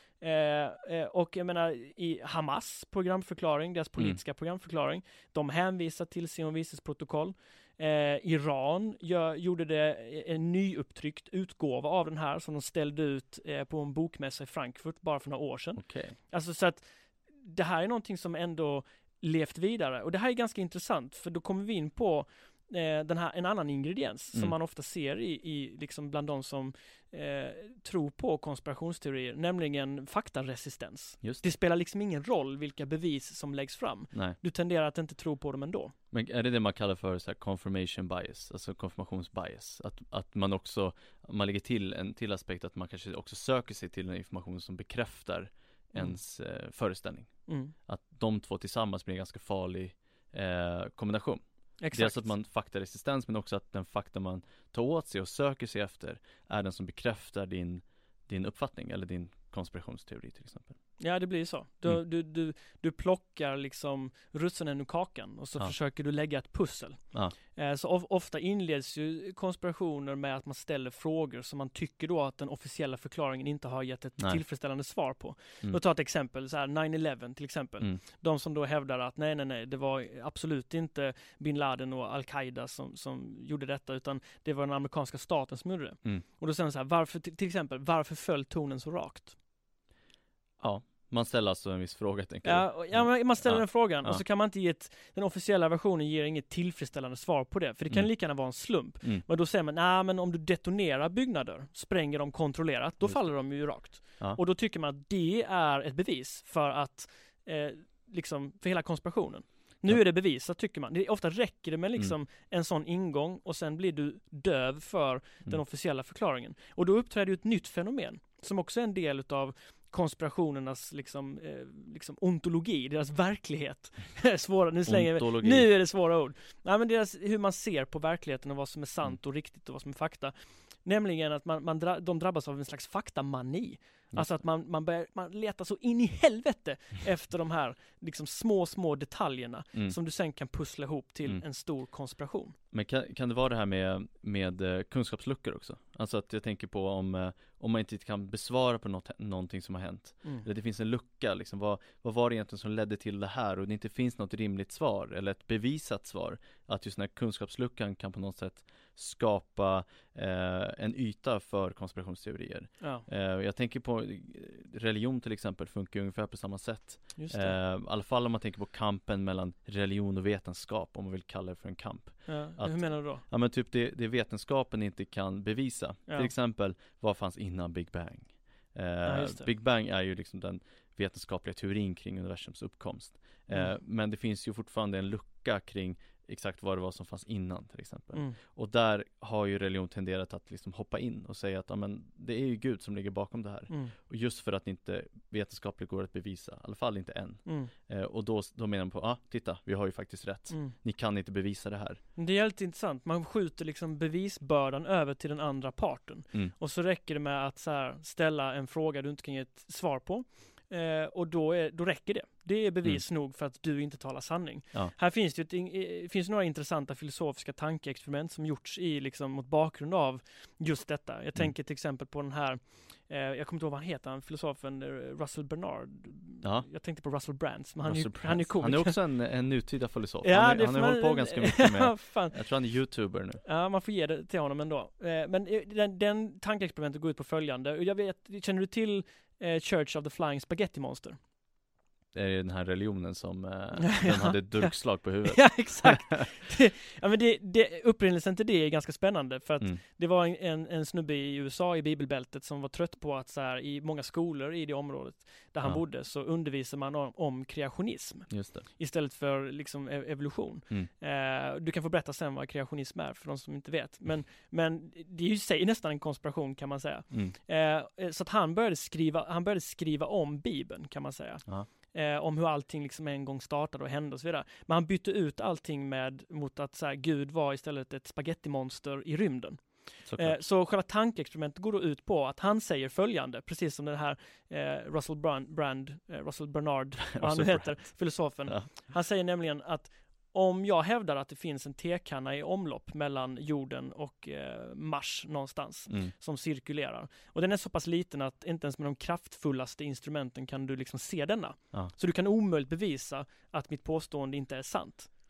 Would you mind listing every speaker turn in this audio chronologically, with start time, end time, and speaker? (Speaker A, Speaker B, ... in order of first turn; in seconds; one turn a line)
Speaker A: 0.2-35.9
Speaker B: 15.8-16.2
Speaker B: 36.1-60.8
Speaker A: 47.5-47.7
Speaker A: 51.8-52.3
Speaker A: 61.0-89.3
Speaker B: 90.6-94.2
Speaker A: 92.4-142.6
Speaker B: 103.0-104.4
Speaker B: 124.9-125.7
Speaker B: 134.1-134.4
Speaker B: 142.7-202.0
Speaker A: 162.8-163.1
Speaker A: 167.2-167.6
Speaker A: 172.3-173.2
Speaker A: 179.0-179.5
Speaker A: 188.1-188.4
Speaker A: 193.7-193.9
Speaker A: 197.4-197.7
Speaker A: 200.5-200.8
Speaker A: 202.2-229.0
Speaker B: 226.4-226.7
Speaker B: 227.8-233.4
Speaker A: 230.2-232.4
Speaker A: 233.4-241.2
Speaker B: 242.1-246.2
Speaker A: 243.9-244.7
Speaker A: 245.3-305.1
Speaker B: 258.3-258.7
Speaker B: 267.1-267.4
Speaker B: 280.1-280.4
Speaker B: 287.2-288.7